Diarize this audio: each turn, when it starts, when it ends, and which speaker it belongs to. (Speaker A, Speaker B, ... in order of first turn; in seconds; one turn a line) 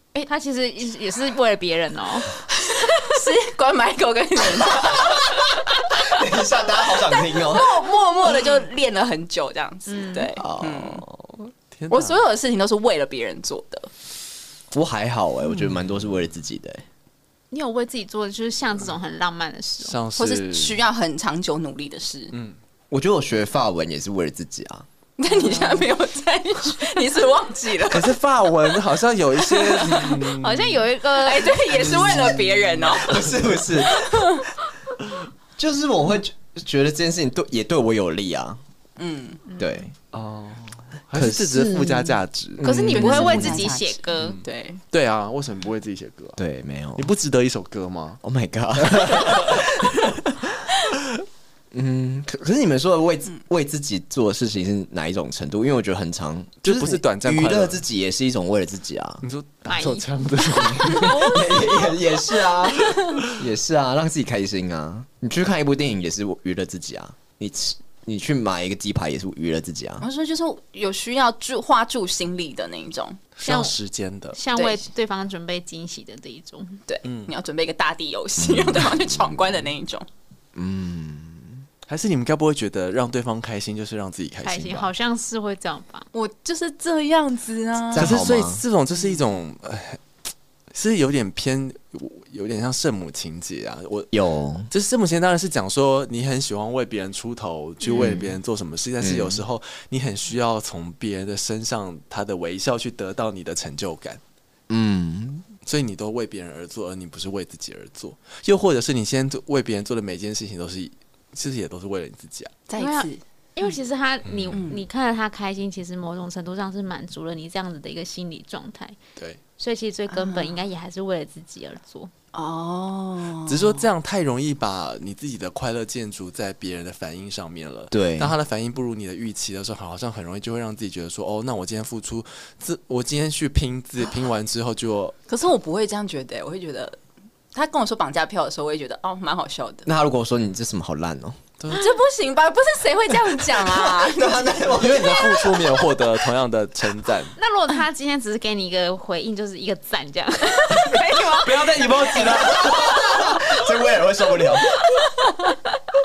Speaker A: 0.2-2.4
Speaker B: 2.5-6.1
Speaker C: 4.8-5.3
Speaker C: 5.9-7.8
Speaker B: 7.0-11.0
Speaker A: 9.9-10.3
Speaker C: 10.4-11.3
Speaker D: 11.7-12.2
Speaker B: 11.9-13.9
Speaker C: 14.7-16.8
Speaker A: 17.5-20.0
Speaker D: 19.8-20.8
Speaker B: 20.2-22.4
Speaker C: 22.9-24.9
Speaker B: 25.2-28.1
Speaker D: 27.9-30.9
Speaker B: 29.4-30.3
Speaker A: 30.4-31.7
Speaker B: 31.2-34.5
Speaker D: 31.7-33.4
Speaker C: 31.8-34.5
Speaker C: 35.6-38.6
Speaker B: 39.0-39.5
Speaker A: 39.5-39.8
Speaker C: 39.6-40.1
Speaker D: 40.1-42.6
Speaker C: 41.1-43.6
Speaker A: 42.6-44.4
Speaker B: 42.8-44.8
Speaker D: 44.2-46.4
Speaker C: 46.4-47.1
Speaker D: 47.0-48.2
Speaker C: 48.2-50.6
Speaker D: 49.2-49.5
Speaker C: 51.7-59.2
Speaker D: 56.6-57.8
Speaker D: 59.2-61.3
Speaker A: 59.7-61.7
Speaker C: 60.6-70.1
Speaker B: 62.8-63.2
Speaker B: 70.0-73.2
Speaker D: 73.4-74.4
Speaker A: 73.4-73.8
Speaker A: 74.3-76.8
Speaker B: 74.5-74.9
Speaker B: 76.9-80.1
Speaker D: 77.0-77.3
Speaker C: 78.4-79.4
Speaker C: 80.5-81.6
Speaker D: 81.9-84.9
Speaker A: 84.4-86.1
Speaker B: 86.1-88.1
Speaker C: 87.9-88.6
Speaker D: 87.9-90.0
Speaker D: 90.7-94.1
Speaker C: 94.1-94.7
Speaker D: 94.7-104.2
Speaker B: 97.8-98.2
Speaker C: 98.0-98.3
Speaker C: 99.0-99.4
Speaker C: 104.7-105.5
Speaker D: 105.7-112.5
Speaker B: 112.7-113.2
Speaker A: 112.8-119.0
Speaker D: 114.2-114.6
Speaker B: 114.5-114.8
Speaker A: 119.6-122.1
Speaker B: 120.1-120.6
Speaker B: 122.3-123.9
Speaker D: 123.5-135.2
Speaker C: 127.9-128.3
Speaker B: 135.3-137.0
Speaker B: 137.5-139.9
Speaker C: 139.9-141.4
Speaker D: 141.6-142.0
Speaker B: 141.7-145.6
Speaker C: 143.8-145.5
Speaker D: 144.7-147.3
Speaker A: 147.4-151.0
Speaker B: 150.6-152.8
Speaker D: 151.3-153.4
Speaker C: 152.2-154.8
Speaker B: 155.0-155.6